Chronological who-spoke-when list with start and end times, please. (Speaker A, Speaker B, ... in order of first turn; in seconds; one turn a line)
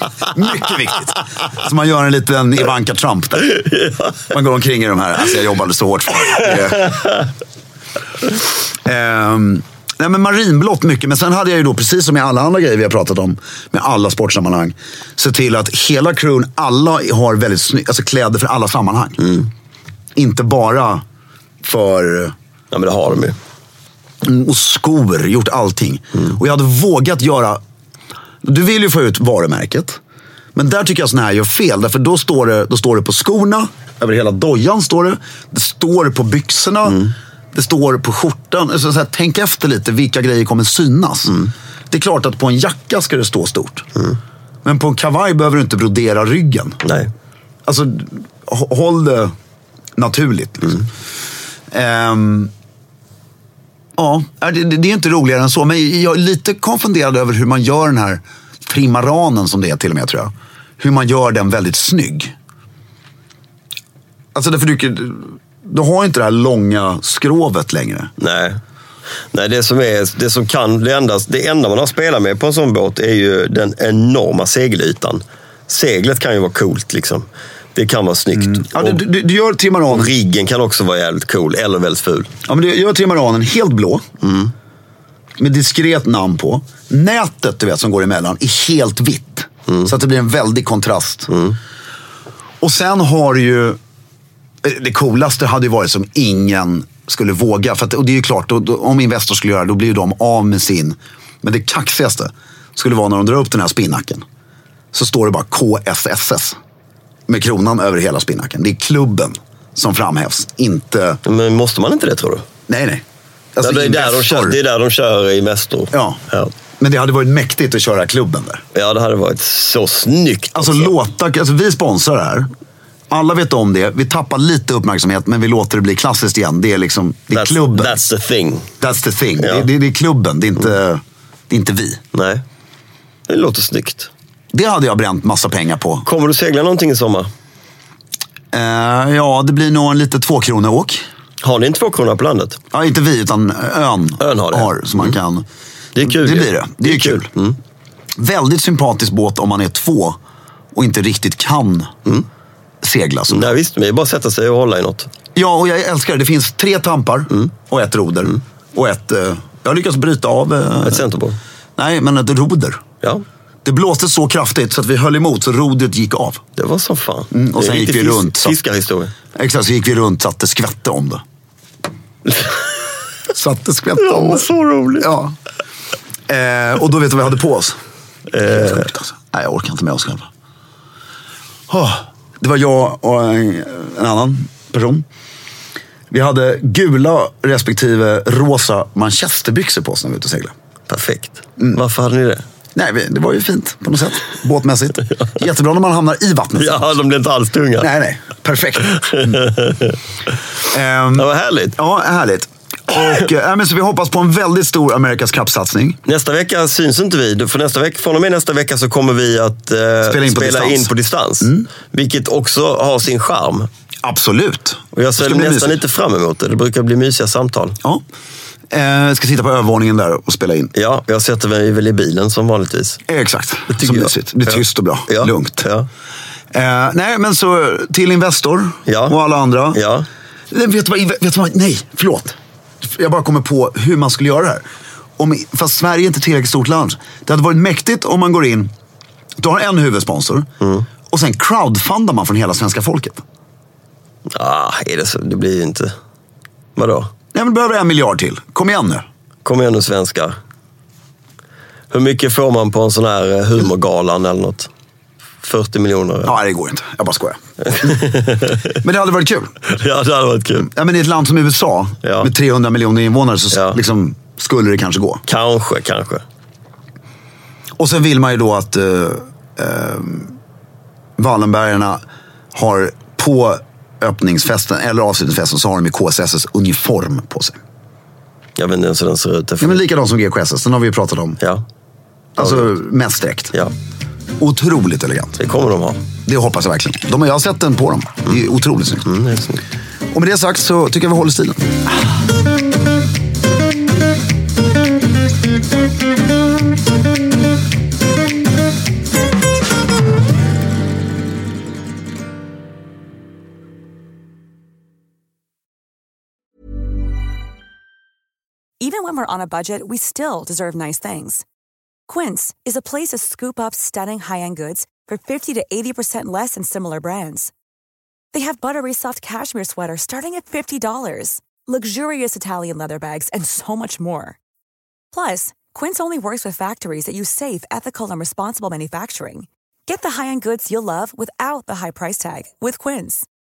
Speaker A: 0.2-3.6
Speaker B: 3.5-4.1
Speaker A: 4.2-7.1
Speaker A: 8.8-19.4
Speaker A: 20.1-21.0
Speaker A: 21.6-22.3
Speaker B: 22.7-23.4
Speaker A: 24.2-27.6
Speaker A: 28.4-30.0
Speaker A: 30.6-43.9
Speaker A: 44.6-46.8
Speaker B: 46.8-47.1
Speaker A: 47.6-49.3
Speaker A: 50.0-50.9
Speaker A: 51.7-52.5
Speaker A: 54.0-62.3
Speaker A: 64.3-68.1
Speaker B: 68.2-68.6
Speaker B: 69.3-79.0
Speaker A: 78.4-80.1
Speaker B: 79.9-82.3
Speaker A: 82.5-84.0
Speaker B: 84.2-84.5
Speaker A: 85.4-91.4
Speaker A: 92.6-93.8
Speaker A: 94.6-104.2
Speaker A: 104.9-106.6
Speaker A: 107.3-111.2
Speaker B: 111.2-112.5
Speaker A: 112.7-113.0
Speaker A: 113.5-114.6
Speaker B: 113.6-116.5
Speaker A: 115.9-116.2
Speaker A: 116.8-118.6
Speaker B: 118.7-120.9
Speaker A: 120.5-122.5
Speaker A: 123.1-128.0
Speaker B: 127.3-128.7
Speaker A: 128.8-132.0
Speaker B: 129.4-129.7
Speaker B: 132.1-132.4
Speaker B: 133.3-134.1
Speaker A: 134.5-136.1
Speaker B: 136.0-137.3
Speaker A: 138.5-141.0
Speaker B: 141.4-142.6
Speaker A: 142.7-145.4
Speaker B: 144.2-145.2
Speaker B: 145.9-147.6
Speaker A: 146.0-147.3
Speaker A: 148.2-150.2
Speaker A: 150.7-151.9
Speaker A: 152.8-153.5
Speaker B: 153.3-155.1
Speaker A: 155.3-161.1
Speaker B: 160.8-161.4
Speaker A: 161.8-162.8
Speaker A: 163.6-166.4
Speaker B: 166.6-169.1
Speaker A: 167.3-168.5
Speaker A: 169.3-171.2
Speaker A: 173.3-175.3
Speaker B: 174.0-175.1
Speaker A: 176.3-177.8
Speaker B: 178.3-178.9
Speaker A: 178.4-180.3
Speaker A: 181.7-185.0
Speaker A: 186.1-190.5
Speaker B: 190.9-192.4
Speaker A: 192.7-197.0
Speaker B: 196.6-197.9
Speaker A: 197.8-199.6
Speaker B: 199.2-199.9
Speaker A: 200.7-206.0
Speaker B: 201.1-201.8
Speaker B: 206.1-213.7
Speaker A: 210.0-210.9
Speaker A: 211.4-211.7
Speaker A: 214.0-215.8
Speaker B: 214.9-217.8
Speaker A: 218.7-220.7
Speaker B: 220.7-223.0
Speaker A: 223.1-225.7
Speaker B: 223.7-225.9
Speaker A: 226.5-229.8
Speaker B: 228.8-229.2
Speaker B: 229.7-230.1
Speaker A: 230.5-234.6
Speaker A: 235.2-238.7
Speaker A: 239.4-240.5
Speaker A: 241.1-243.2
Speaker B: 244.3-245.9
Speaker B: 246.8-247.1
Speaker A: 247.3-249.1
Speaker B: 249.4-250.3
Speaker B: 251.9-254.7
Speaker B: 255.4-256.4
Speaker A: 256.2-257.4
Speaker B: 257.6-258.6
Speaker A: 258.8-259.5
Speaker B: 259.6-260.7
Speaker A: 260.6-265.2
Speaker B: 262.0-262.3
Speaker B: 263.5-263.8
Speaker B: 265.3-266.2
Speaker A: 267.8-270.4
Speaker A: 271.2-272.0
Speaker A: 272.5-277.6
Speaker B: 278.6-279.8
Speaker A: 279.6-281.4
Speaker B: 281.4-281.6
Speaker A: 282.4-283.6
Speaker B: 282.4-282.7
Speaker A: 284.4-285.4
Speaker B: 285.4-286.0
Speaker A: 286.2-289.1
Speaker B: 289.0-289.6
Speaker A: 290.1-291.8
Speaker C: 308.8-311.4
Speaker C: 312.1-317.5
Speaker C: 318.3-324.4
Speaker C: 325.1-333.2